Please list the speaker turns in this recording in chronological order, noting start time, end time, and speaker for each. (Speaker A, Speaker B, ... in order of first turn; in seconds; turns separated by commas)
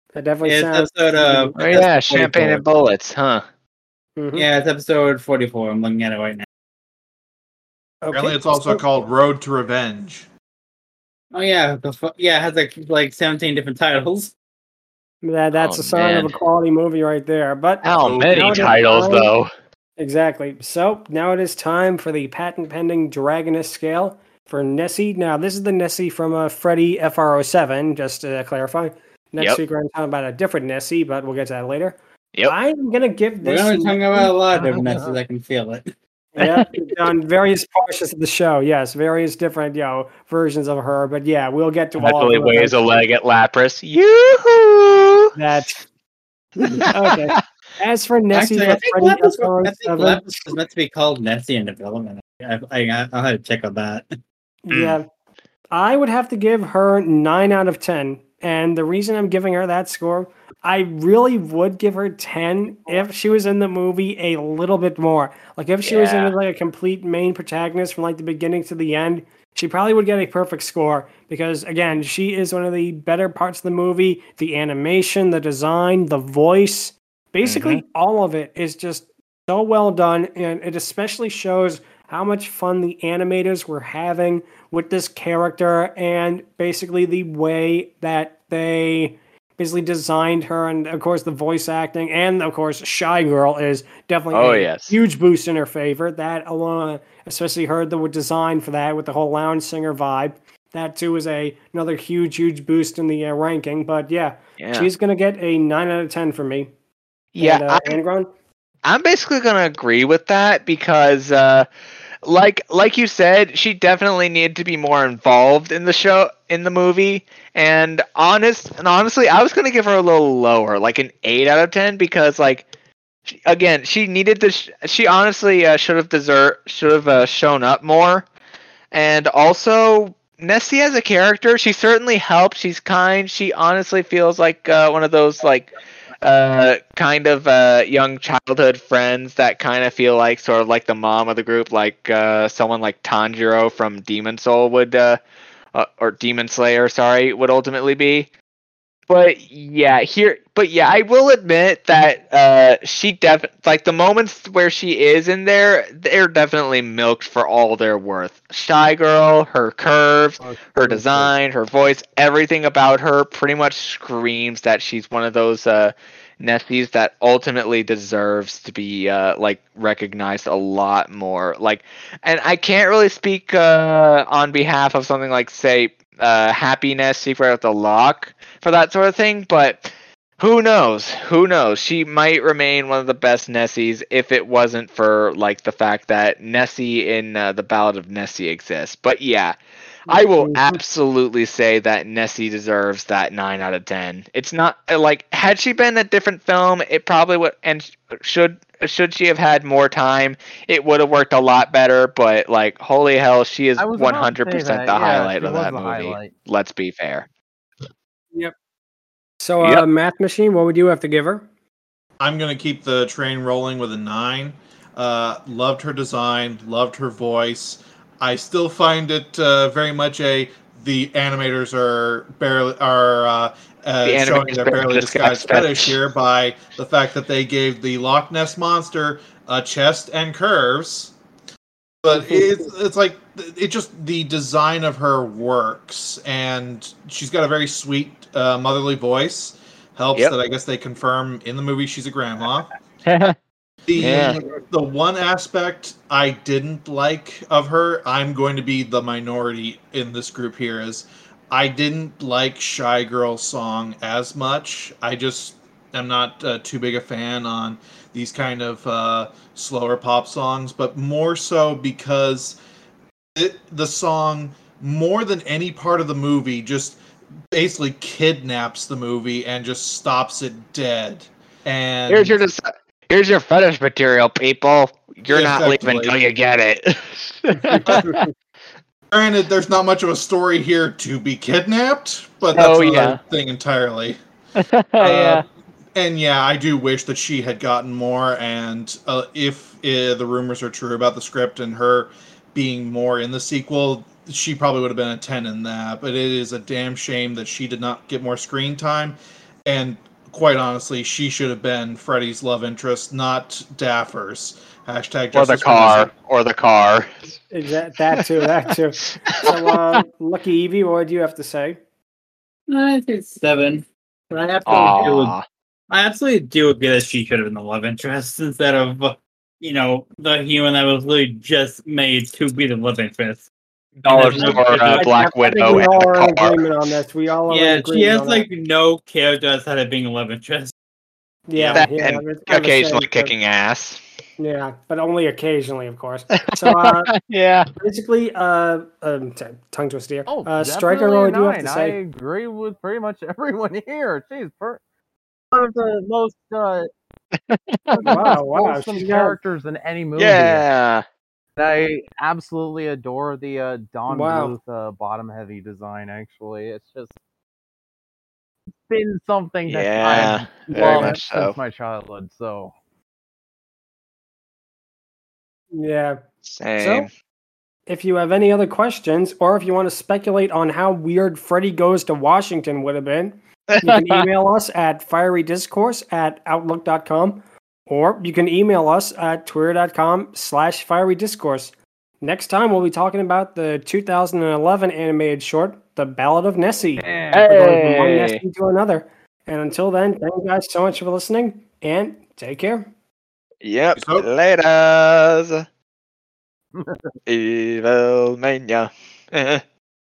Speaker A: 0.1-1.6, Speaker B: 0.4-2.6, Speaker C: 1.6-3.4, Speaker A: 4.2-4.5, Speaker B: 4.3-6.5, Speaker A: 8.0-8.9, Speaker D: 8.1-10.3, Speaker B: 11.3-14.3, Speaker A: 15.2-19.4, Speaker C: 15.6-16.4, Speaker C: 17.8-19.5, Speaker D: 18.0-18.8, Speaker A: 20.0-34.3, Speaker B: 33.4-35.9, Speaker E: 34.5-35.2, Speaker A: 36.4-42.8, Speaker C: 36.4-36.7, Speaker C: 42.0-45.3, Speaker A: 45.4-45.9, Speaker C: 46.6-47.4, Speaker A: 46.9-50.5, Speaker B: 48.3-54.1, Speaker A: 54.6-55.1, Speaker C: 54.7-55.0, Speaker A: 55.7-106.7, Speaker C: 65.8-66.3, Speaker C: 77.4-77.8, Speaker C: 94.3-95.0, Speaker C: 104.6-104.9, Speaker C: 107.3-108.0, Speaker A: 107.4-108.3, Speaker C: 108.8-111.7, Speaker C: 112.2-122.7, Speaker C: 123.3-128.3, Speaker C: 128.9-145.2, Speaker C: 145.7-148.3, Speaker C: 149.1-189.6, Speaker E: 160.4-161.3, Speaker A: 190.1-190.8, Speaker C: 190.1-207.3, Speaker E: 203.8-206.3, Speaker A: 209.4-211.4, Speaker D: 212.2-231.1, Speaker C: 224.1-226.0, Speaker D: 232.0-242.7, Speaker C: 243.1-243.3, Speaker D: 243.9-262.6, Speaker C: 244.0-244.4, Speaker D: 263.4-267.0, Speaker D: 267.5-272.4, Speaker C: 272.1-278.2, Speaker D: 275.3-276.2, Speaker A: 277.5-278.3, Speaker D: 277.9-278.2, Speaker D: 279.1-284.2, Speaker C: 282.5-283.2, Speaker C: 284.6-285.4, Speaker D: 285.0-306.1, Speaker C: 305.3-307.4, Speaker A: 307.5-311.8, Speaker C: 309.3-310.0, Speaker B: 312.7-315.3, Speaker C: 314.7-315.4, Speaker B: 315.9-323.5, Speaker C: 324.0-326.6, Speaker B: 324.1-325.1, Speaker A: 324.4-328.5, Speaker B: 327.5-330.7, Speaker A: 331.5-333.4, Speaker B: 331.6-331.8, Speaker C: 331.8-334.0, Speaker A: 334.4-337.1, Speaker C: 336.4-337.7, Speaker A: 337.8-342.0, Speaker E: 340.3-344.8, Speaker E: 345.5-346.9, Speaker C: 347.5-348.3, Speaker E: 347.9-350.7, Speaker A: 348.0-349.4, Speaker C: 350.2-351.1, Speaker E: 351.6-357.2, Speaker A: 354.1-354.6, Speaker E: 358.8-362.7, Speaker C: 359.7-361.6, Speaker A: 360.8-361.1, Speaker A: 365.7-366.2, Speaker C: 366.6-367.1, Speaker A: 366.8-367.1, Speaker A: 367.9-392.9, Speaker C: 373.7-374.3, Speaker E: 387.0-387.5, Speaker C: 387.3-388.4, Speaker C: 393.6-395.6, Speaker D: 394.0-394.3, Speaker E: 396.8-397.1, Speaker C: 397.3-399.6